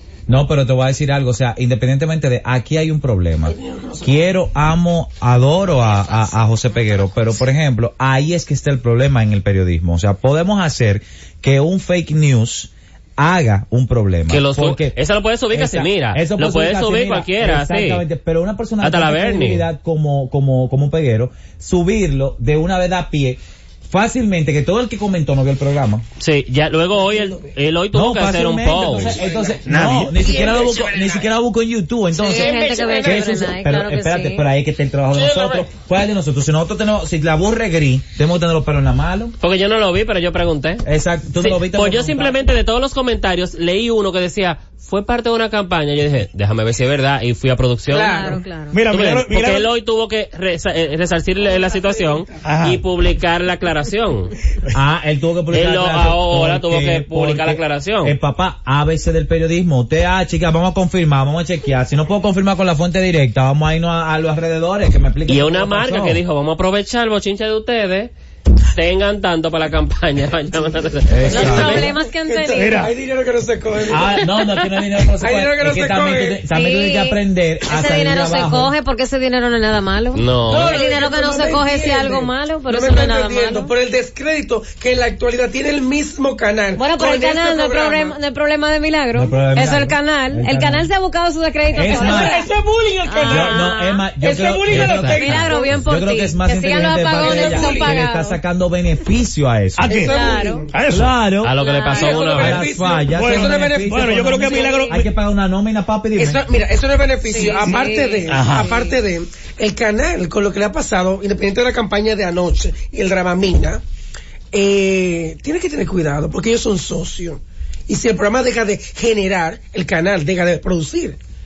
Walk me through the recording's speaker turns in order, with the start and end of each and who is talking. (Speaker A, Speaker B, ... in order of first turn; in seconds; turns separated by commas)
Speaker A: 0.3-15.0, Speaker B: 3.5-4.3, Speaker C: 14.3-18.0, Speaker A: 15.5-26.0, Speaker C: 18.8-19.6, Speaker C: 26.2-29.2, Speaker B: 26.9-27.5, Speaker A: 27.9-39.4, Speaker B: 29.2-29.6, Speaker D: 29.6-30.2, Speaker B: 30.2-31.1, Speaker E: 32.2-34.4, Speaker B: 32.2-33.3, Speaker C: 39.4-40.8, Speaker A: 40.8-42.5, Speaker C: 41.4-48.4, Speaker B: 47.9-48.4, Speaker E: 48.1-48.8, Speaker D: 48.7-49.7, Speaker C: 48.9-54.3, Speaker B: 51.4-52.4, Speaker D: 52.4-52.8, Speaker A: 54.7-66.2, Speaker C: 55.5-58.1, Speaker C: 65.3-68.1, Speaker C: 68.7-71.8, Speaker A: 71.0-71.9, Speaker B: 71.3-74.3, Speaker E: 71.3-72.9, Speaker D: 72.5-72.9, Speaker A: 73.9-78.7, Speaker B: 75.2-76.4, Speaker E: 76.5-83.7, Speaker C: 80.1-80.8, Speaker B: 80.5-88.2, Speaker E: 86.8-92.5, Speaker A: 89.1-90.9, Speaker A: 91.7-92.4, Speaker B: 91.8-95.8, Speaker E: 93.0-94.1, Speaker A: 93.2-99.9, Speaker D: 94.7-95.0, Speaker C: 94.8-95.2, Speaker E: 95.0-98.4, Speaker B: 97.2-98.0, Speaker D: 99.8-101.1, Speaker B: 99.8-100.7, Speaker E: 99.9-100.7, Speaker A: 100.9-101.6, Speaker C: 101.4-102.7, Speaker E: 101.5-102.5, Speaker B: 101.9-105.0, Speaker A: 102.3-106.4, Speaker D: 103.1-105.0, Speaker E: 104.5-104.9, Speaker B: 106.2-113.8, Speaker E: 107.2-109.0, Speaker D: 108.3-108.7, Speaker B: 114.5-121.2